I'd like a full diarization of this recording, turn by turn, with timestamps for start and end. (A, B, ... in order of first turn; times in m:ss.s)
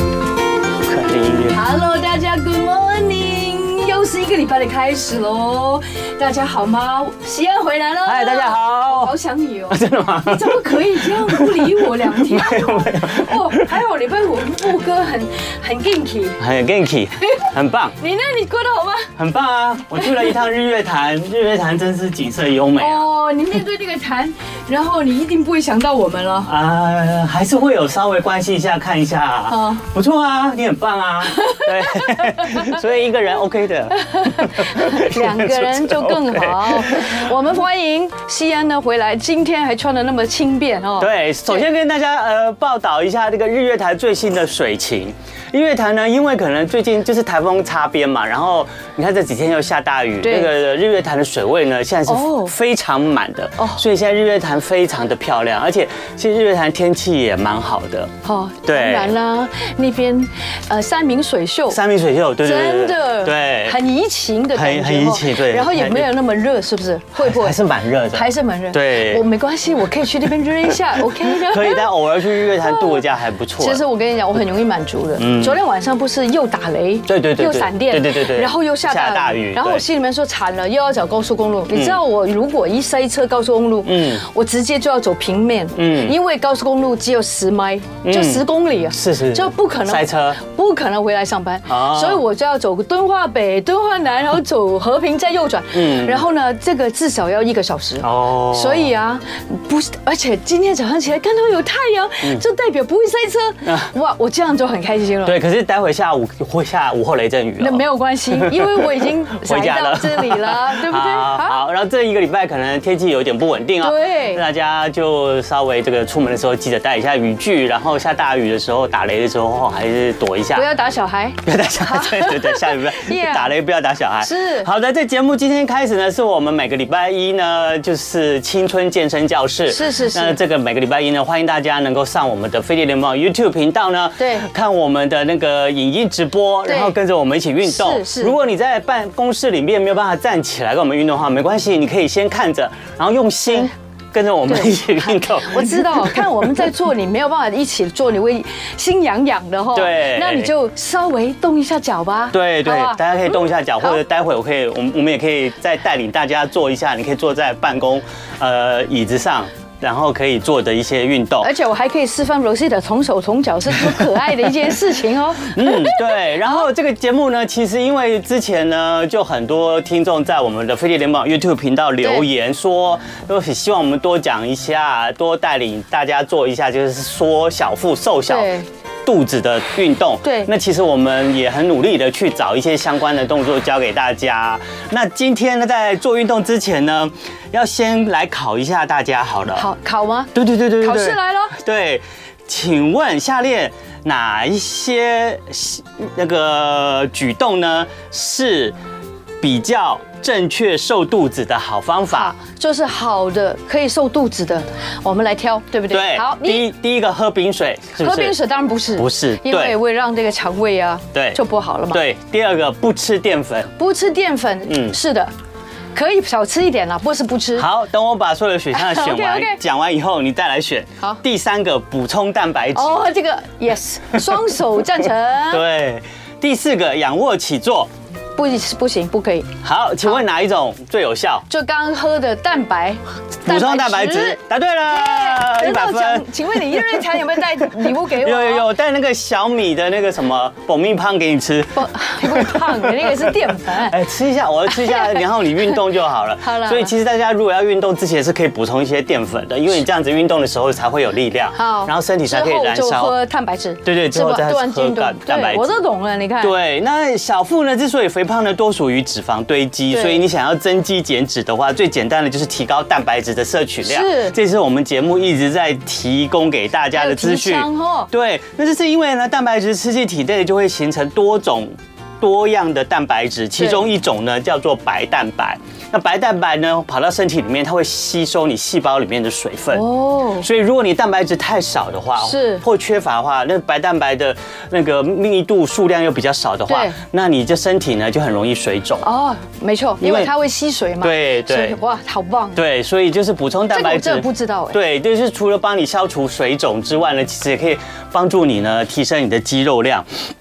0:00.8-0:01.6 A
0:01.5-0:16.4 B
0:08.0-0:09.1 A
0:09.7-0:13.7 A
0:16.4-0:17.9 A
0:18.0-0:19.1 B
0:19.2-0:23.1 A
0:22.8-0:26.5 B
0:26.5-0:37.4 A
0:29.5-0:29.8 B
0:31.4-0:32.7 B
0:34.0-0:41.6 B
0:41.0-0:58.1 A
0:50.2-0:50.5 B
0:52.1-0:52.5 B
0:58.2-1:01.8 B
0:58.6-0:59.1 A
1:01.7-1:03.8 A
1:02.4-1:07.6 B
1:04.5-1:06.1 A
1:07.2-1:09.2 A
1:08.1-1:11.9 B
1:11.1-1:13.8 A
1:12.6-1:13.0 B
1:13.6-1:45.4 B
1:15.2-1:15.6 A
1:17.1-1:19.8 A
1:21.7-1:22.0 A
1:23.8-1:24.2 A
1:25.8-1:26.2 A
1:28.0-1:30.4 A
1:31.7-1:32.2 A
1:35.7-1:36.3 A
1:38.0-1:38.9 A
1:43.6-1:43.9 A
1:45.2-2:00.7 A
1:47.6-1:51.6 B
1:53.8-1:54.4 B
2:00.6-2:03.5 B
2:01.4-2:26.5 A
2:04.2-2:04.7 B
2:09.7-2:10.4 B
2:14.2-2:14.5 B
2:16.7-2:17.0 B
2:17.7-2:18.4 B
2:24.5-2:33.0 B
2:29.7-2:30.5 A
2:32.3-2:41.5 A
2:41.4-2:46.5 B
2:45.4-2:58.5 A
2:58.3-2:58.7 B
2:59.0-3:09.7 A
3:00.2-3:00.5 B
3:09.6-3:11.5 B
3:10.3-3:18.8 A
3:19.4-3:22.4 A
3:22.1-3:26.7 B
3:25.9-3:28.4 A
3:28.0-3:32.0 B
3:29.0-3:29.8 A
3:31.1-3:33.7 A
3:33.8-3:35.3 B
3:34.7-3:35.0 A
3:35.9-3:37.7 B
3:37.6-3:43.1 A
3:38.7-3:39.6 B
3:42.8-3:45.6 B
3:45.5-3:47.9 A
3:48.4-3:49.5 B
3:49.6-3:51.4 A
3:51.5-3:58.7 B
3:53.4-4:13.2 A
4:01.8-4:04.0 B
4:04.7-4:05.2 B
4:06.4-4:06.9 B
4:11.6-4:16.5 B
4:13.8-4:15.8 A
4:16.4-4:39.8 A
4:19.9-4:20.2 B
4:23.8-4:24.4 B
4:26.9-4:28.1 B
4:39.7-4:40.5 B
4:40.4-4:49.0 A
4:42.2-4:42.6 B
4:46.7-4:47.0 B
4:49.0-4:52.6 B
4:50.0-4:50.3 A
4:51.0-4:51.8 A
4:52.6-5:00.1 A
4:53.7-4:54.8 B